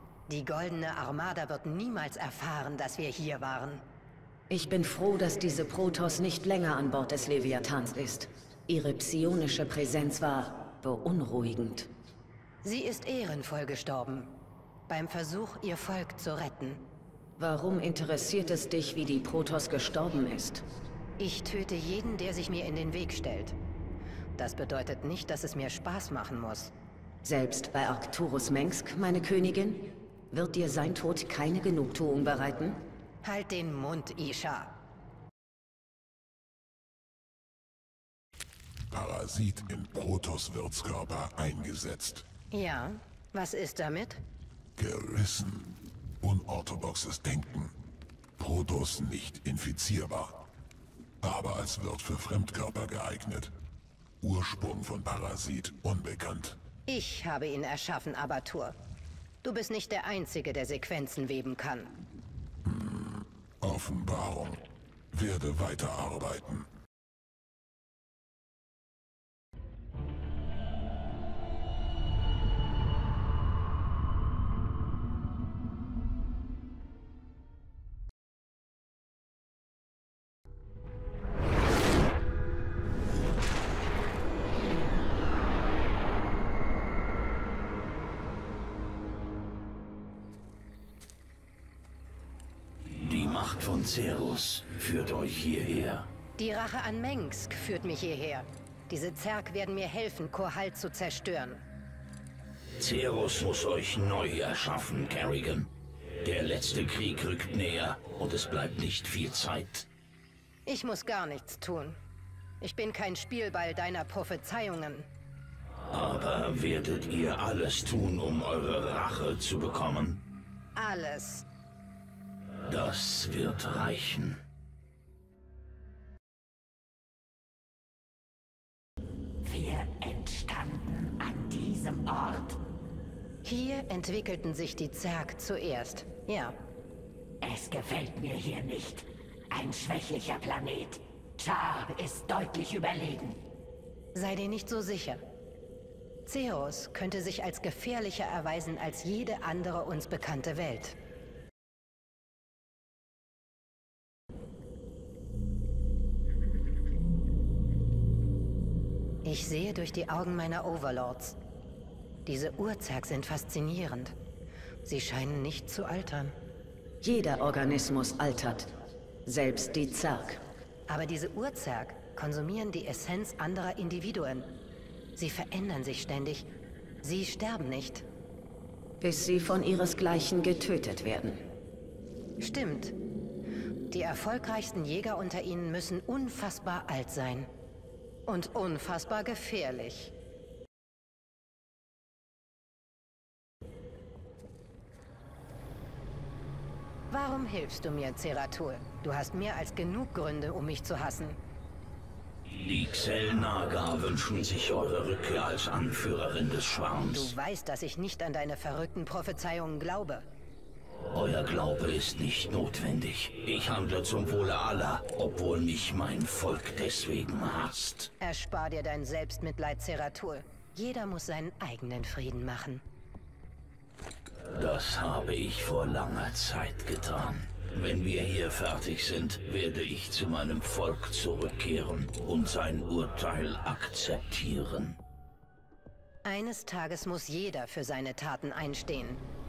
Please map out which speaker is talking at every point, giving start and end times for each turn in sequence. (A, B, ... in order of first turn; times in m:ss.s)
0:00.3-0:03.8 A
0:04.5-0:11.9 B
0:12.6-0:14.3 A
0:14.9-0:16.8 A
0:17.4-0:20.6 B
0:21.2-0:23.6 A
0:24.4-0:26.7 A
0:27.2-0:32.8 B
0:33.2-0:34.7 A
0:38.9-0:42.2 C
0:42.5-0:44.2 A
0:44.8-0:47.7 C
0:48.4-0:50.4 C
0:51.2-0:53.5 C
0:54.2-0:56.6 C
0:56.9-0:58.8 A
0:59.4-1:01.9 A
1:03.6-1:04.6 C
1:05.1-1:06.7 C
1:33.0-1:36.1 D
1:36.4-1:41.6 A
1:42.8-1:49.9 D
1:50.7-1:52.0 A
1:52.6-1:55.1 A
1:55.9-2:00.2 D
2:00.8-2:01.4 A
2:02.6-2:04.4 D
2:09.4-2:12.6 E
2:13.4-2:16.6 A
2:17.4-2:23.4 E
2:24.1-2:25.2 A
2:26.3-2:31.0 A
2:39.2-2:41.4 A
2:42.3-2:44.1 A
2:44.8-2:46.3 A
2:47.0-2:48.7 B
2:49.3-2:50.4 B
2:50.9-2:54.5 A
2:55.2-2:56.5 A
2:57.0-2:58.0 A
2:59.0-3:01.4 B
3:02.4-3:02.9 A
3:03.9-3:07.5 A
3:08.3-3:10.1 A
3:17.1-3:21.4 A
3:22.5-3:27.4 D
3:27.0-3:30.3 A
3:31.1-3:38.1 D
3:38.2-3:42.8 A
3:44.5-3:55.0 D
3:56.2-3:59.2 A